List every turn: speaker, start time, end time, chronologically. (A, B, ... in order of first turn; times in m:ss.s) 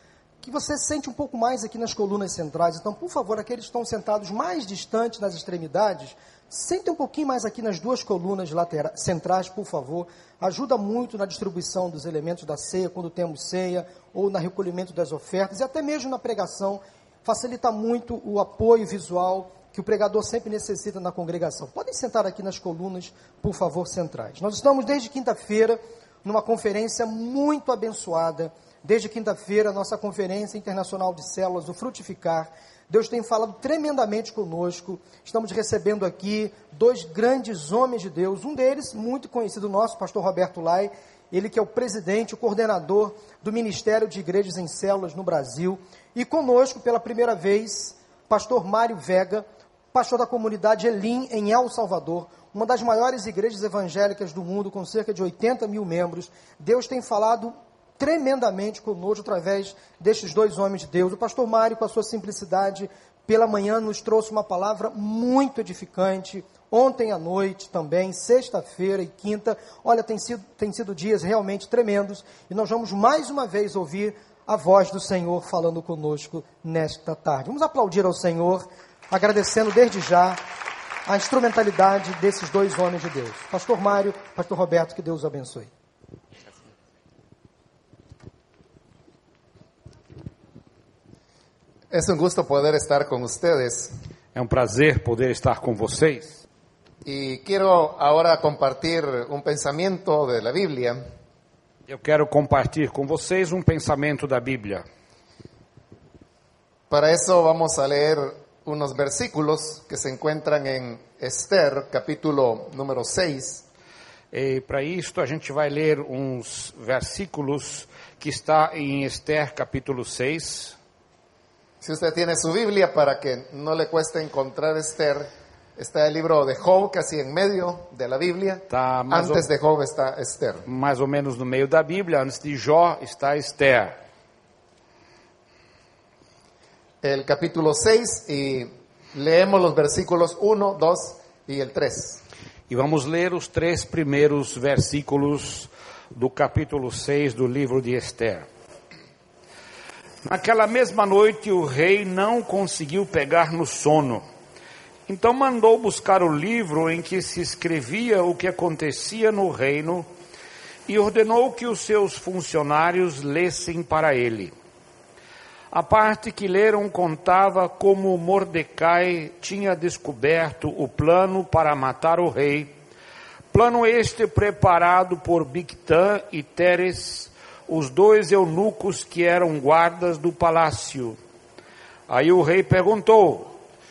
0:00.4-1:20.4 A
1:21.1-1:25.7 A
1:31.9-1:33.9 B
1:34.3-1:36.4 C
1:37.0-1:41.0 B
1:41.9-1:44.8 C
1:46.9-1:53.6 B
1:54.3-2:00.8 C
2:01.8-2:10.6 B
2:08.7-2:09.4 C
2:10.7-2:13.9 C
2:17.0-2:22.2 B
2:22.7-2:28.5 C
2:30.2-2:34.2 C
2:35.1-2:40.1 C
2:40.9-2:44.5 C
2:45.7-2:52.7 C
2:53.5-3:01.2 C
3:02.1-3:03.5 C